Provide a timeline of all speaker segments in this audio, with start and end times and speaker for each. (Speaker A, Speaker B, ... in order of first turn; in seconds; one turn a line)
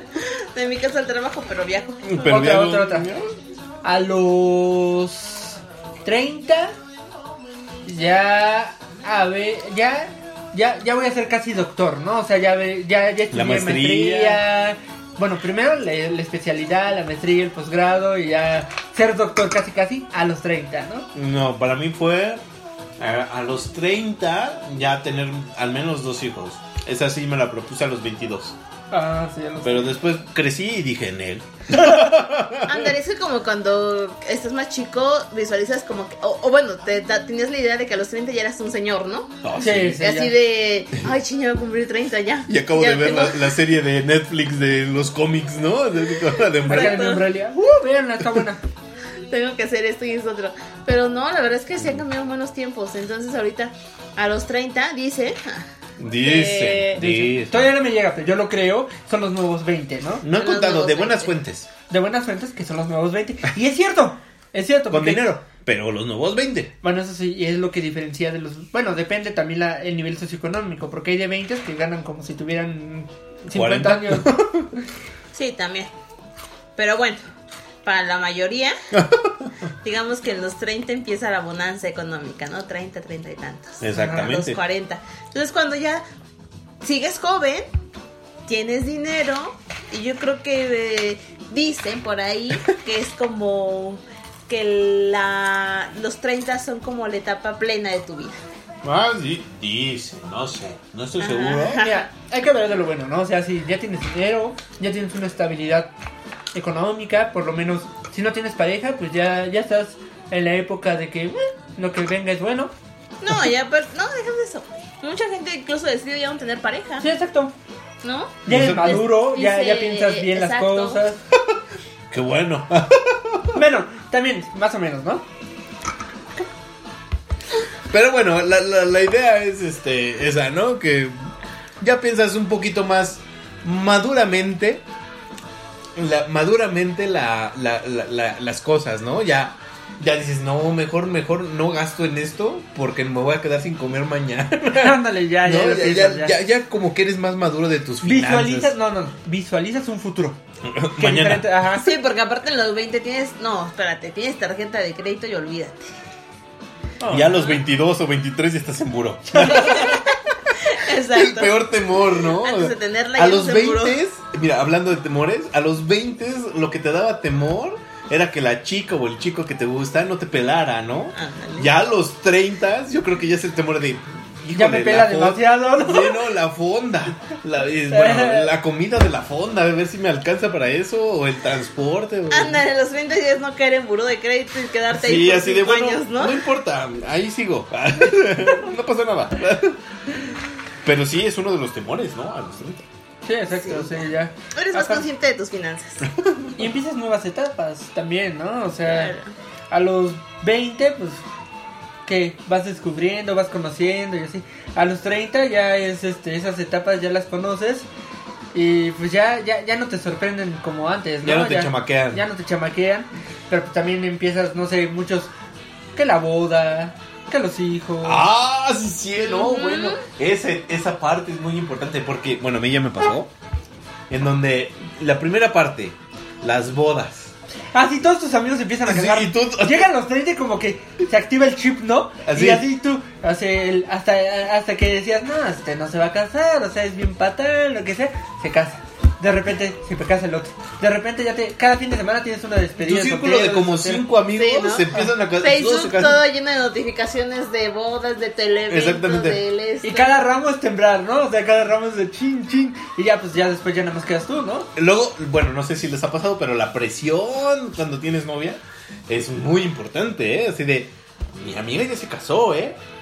Speaker A: 0.2-2.3
Speaker B: 2.0-3.3
Speaker C: 2.2-3.1
Speaker C: 3.8-6.7
Speaker C: 7.8-21.1
Speaker B: 13.3-14.4
Speaker B: 21.1-22.4
Speaker B: 23.0-28.6
Speaker C: 28.9-30.0
Speaker B: 29.6-32.9
Speaker A: 32.6-39.4
Speaker B: 39.4-40.0
Speaker C: 39.6-40.3
Speaker A: 40.0-43.5
Speaker B: 42.5-47.1
Speaker C: 46.7-48.6
Speaker A: 46.7-47.2
Speaker A: 49.3-55.6
Speaker B: 56.0-57.7
Speaker A: 56.2-57.0
Speaker C: 57.0-60.2
Speaker B: 60.2-61.7
Speaker A: 60.3-61.3
Speaker C: 61.9-65.4
Speaker B: 64.9-66.7
Speaker C: 66.8-74.4
Speaker B: 73.5-74.7
Speaker A: 75.3-75.9
Speaker A: 76.8-77.2
Speaker A: 77.8-78.8
Speaker B: 78.9-79.5
Speaker A: 79.8-86.0
Speaker B: 83.8-84.6
Speaker C: 83.9-84.3
Speaker A: 86.8-87.7
Speaker A: 88.5-98.4
Speaker B: 98.8-101.9
Speaker A: 101.2-102.1
Speaker C: 101.8-105.9
Speaker C: 106.5-112.7
Speaker A: 113.2-117.1
Speaker C: 117.0-117.5
Speaker A: 118.0-121.0
Speaker C: 118.5-121.2
Speaker B: 118.5-119.0
Speaker B: 122.1-123.6
Speaker C: 123.5-125.2
Speaker B: 127.9-134.8
Speaker B: 136.0-148.8
Speaker C: 144.8-146.3
Speaker C: 148.0-150.4
Speaker B: 150.6-151.5
Speaker C: 151.0-151.9
Speaker A: 151.8-155.9
Speaker C: 157.0-157.4
Speaker B: 157.1-160.0
Speaker A: 159.6-161.6
Speaker B: 161.1-182.6
Speaker A: 162.3-164.0
Speaker A: 171.2-171.7
Speaker C: 174.5-176.2
Speaker C: 177.9-178.5
Speaker A: 182.3-186.4
Speaker B: 184.9-189.8
Speaker B: 190.8-192.8
Speaker C: 193.2-195.1
Speaker A: 193.6-193.9
Speaker A: 194.6-196.1
Speaker B: 196.2-196.5
Speaker C: 196.6-199.1
Speaker A: 198.8-199.3
Speaker C: 199.7-201.2
Speaker C: 202.1-207.9
Speaker C: 208.5-215.3
Speaker B: 211.2-212.2
Speaker C: 215.9-218.3
Speaker B: 218.0-223.3
Speaker A: 219.3-220.0
Speaker B: 224.1-227.3
Speaker C: 227.7-244.0
Speaker B: 228.8-229.9
Speaker B: 232.3-232.7
Speaker B: 242.8-246.2
Speaker A: 244.3-250.2
Speaker B: 248.7-249.4
Speaker C: 249.8-254.7
Speaker B: 254.8-262.8